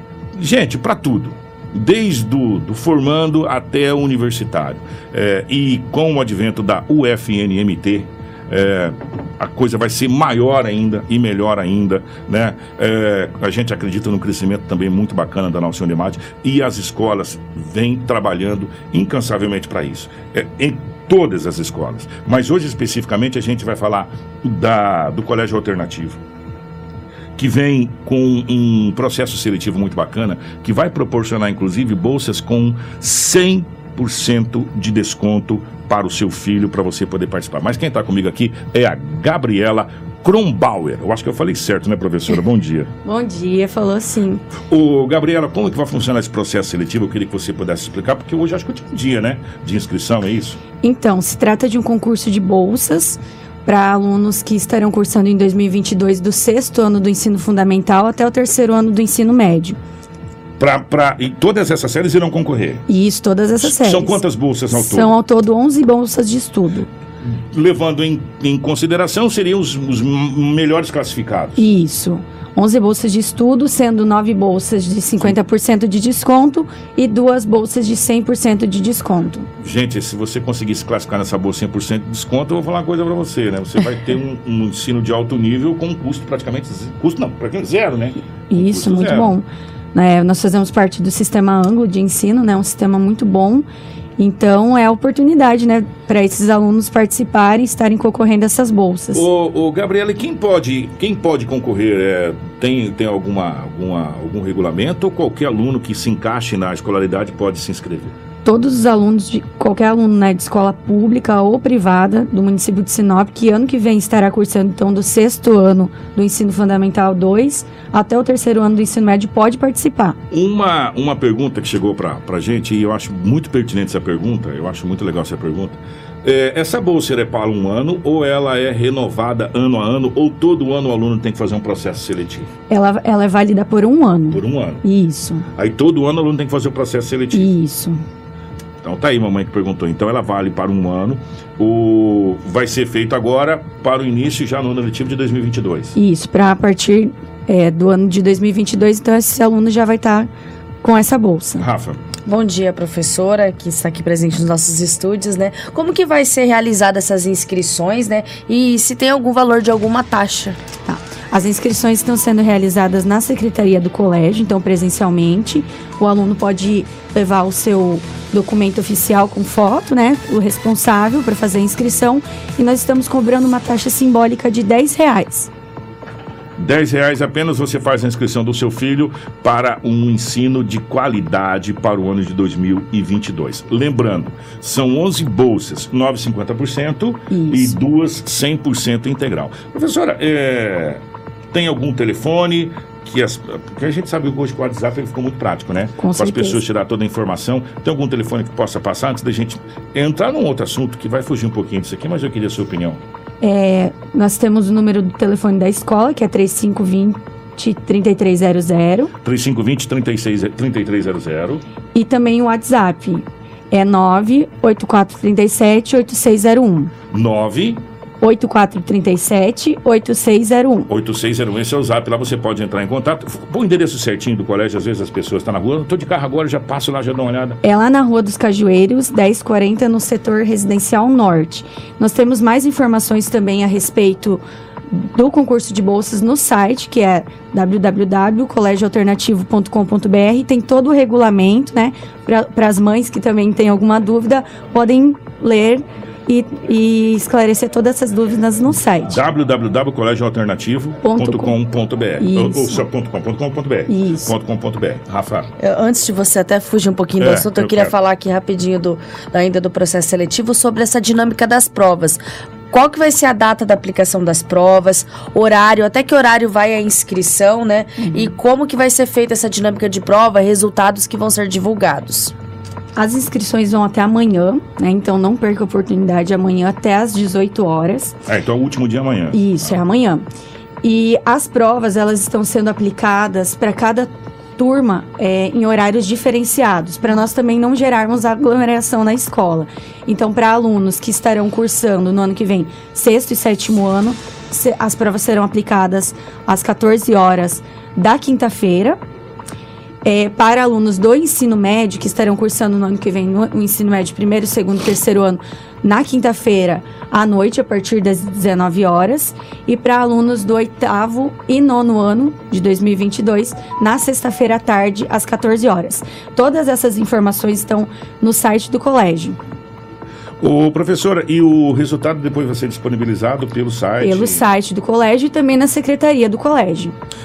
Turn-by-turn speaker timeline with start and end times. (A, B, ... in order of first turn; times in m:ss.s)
0:00.3-0:26.2 A
0:27.4-0:42.9 A
0:43.0-0:44.4 B
0:44.7-0:50.6 A
0:50.8-0:59.8 B
1:00.6-1:02.8 A
1:02.9-1:06.9 B
1:03.6-1:05.1 A
1:07.2-1:11.6 A
1:11.6-1:19.5 B
1:19.6-1:29.4 A
1:28.5-1:33.6 B
1:34.2-1:39.2 B
1:39.1-1:48.1 A
1:48.4-2:00.2 B
2:00.3-2:12.5 A
2:12.7-2:15.5 B
2:14.3-2:14.8 A
2:15.6-2:17.5 A
2:17.3-2:18.0 B
2:18.8-2:25.9 A
2:26.0-2:30.3 B
2:30.8-2:31.7 B
2:31.6-2:32.0 A
2:32.2-2:40.6 C
2:40.8-2:55.5 B
2:56.6-3:23.0 A
3:07.3-3:07.8 B
3:16.0-3:16.6 B
3:23.4-3:29.1 B
3:29.2-3:31.6 A
3:31.9-3:36.9 B
3:37.1-3:37.8 A
3:38.2-3:40.9 B
3:40.9-3:47.6 A
3:47.6-4:09.2 B
4:09.0-4:15.5 A
4:11.0-4:11.6 B
4:12.2-4:12.8 B
4:13.9-4:14.3 B
4:15.6-4:32.3 C
4:17.2-4:17.9 A
4:28.0-4:28.3 B
4:33.0-4:38.2 B
4:38.2-4:39.8 A
4:39.3-4:40.2 B
4:40.8-4:59.0 B
5:00.0-5:19.4 B
5:20.4-5:24.4 A
5:24.0-5:26.9 B